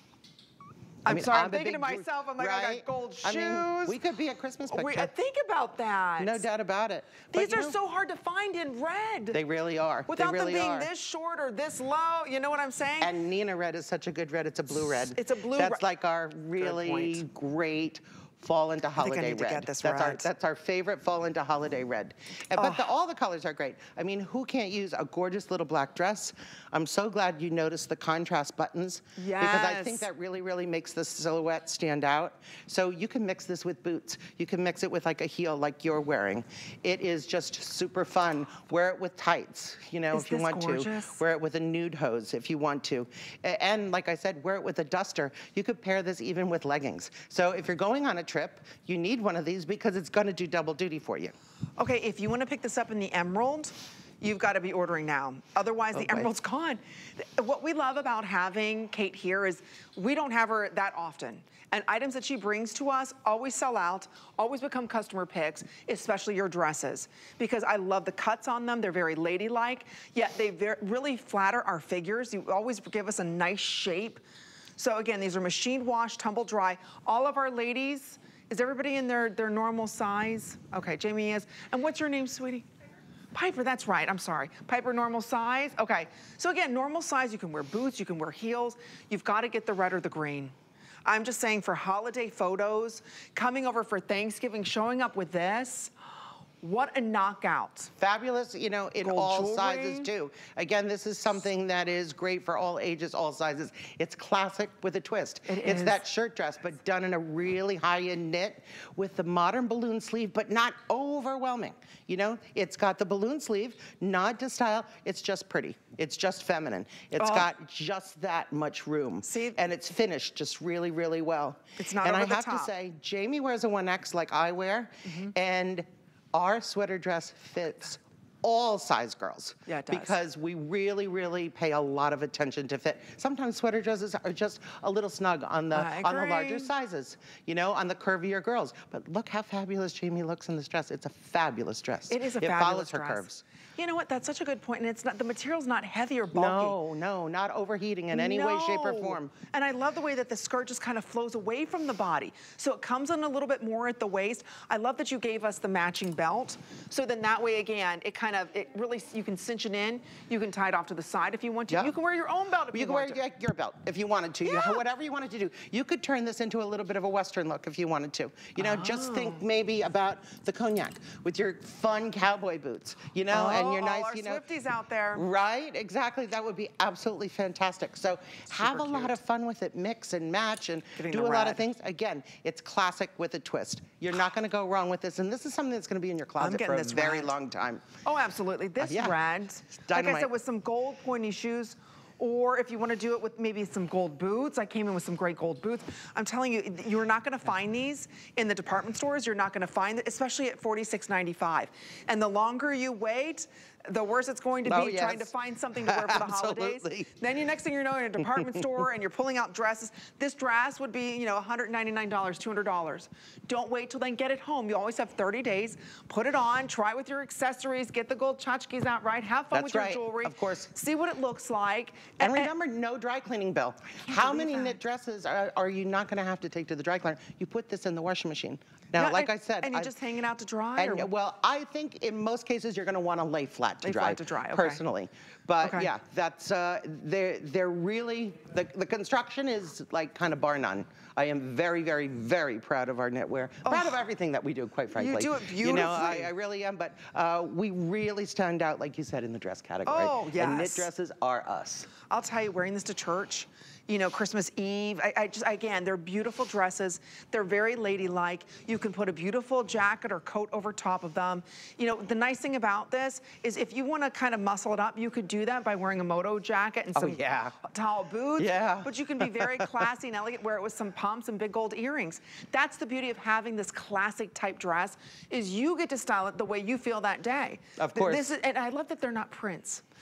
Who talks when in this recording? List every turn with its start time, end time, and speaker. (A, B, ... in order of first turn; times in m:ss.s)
0:01.0-0:04.0 A
0:01.0-0:05.1 B
0:04.6-0:06.4 A
0:06.2-0:07.8 B
0:07.3-0:09.4 A
0:09.3-0:10.9 B
0:10.1-0:13.2 A
0:13.0-0:51.3 B
0:14.7-0:15.8 A
0:16.6-0:17.2 A
0:19.0-0:20.3 A
0:22.5-0:22.9 A
0:29.2-0:30.1 A
0:40.1-0:41.2 A
0:51.8-1:14.2 A
0:55.9-0:56.3 B
1:14.8-1:22.6 A
1:23.3-1:35.9 A
1:36.6-1:37.9 A
1:38.0-2:23.4 B
1:39.0-1:40.1 A
1:45.5-1:46.0 A
1:57.2-1:57.5 A
1:59.2-1:59.6 A
2:01.8-2:02.7 A
2:05.0-2:05.3 A
2:09.7-2:10.2 A
2:15.7-2:16.7 A
2:22.1-2:23.2 A
2:23.8-2:26.8 A
2:26.3-2:29.3 B
2:28.1-2:43.2 A
2:41.7-2:41.9 B
2:42.7-2:54.4 B
2:44.4-2:44.8 A
2:48.6-2:49.4 A
2:53.3-2:55.2 A
2:55.1-3:07.8 B
2:58.5-2:59.2 A
3:01.0-3:01.6 A
3:06.4-3:07.3 A
3:08.0-3:42.5 A
3:08.8-3:09.2 B
3:09.8-3:10.3 B
3:24.6-3:27.1 B
3:39.5-3:40.7 B
3:42.2-3:49.9 B
3:44.0-3:44.8 A
3:48.9-3:51.1 A
3:50.8-4:11.9 B
3:53.8-3:54.8 A
3:55.6-3:55.9 A
4:03.6-4:04.0 A
4:04.9-4:06.3 A
4:09.8-4:10.9 A
4:12.1-4:39.8 A
4:26.9-4:27.6 B
4:28.4-4:29.7 B
4:37.8-4:38.3 B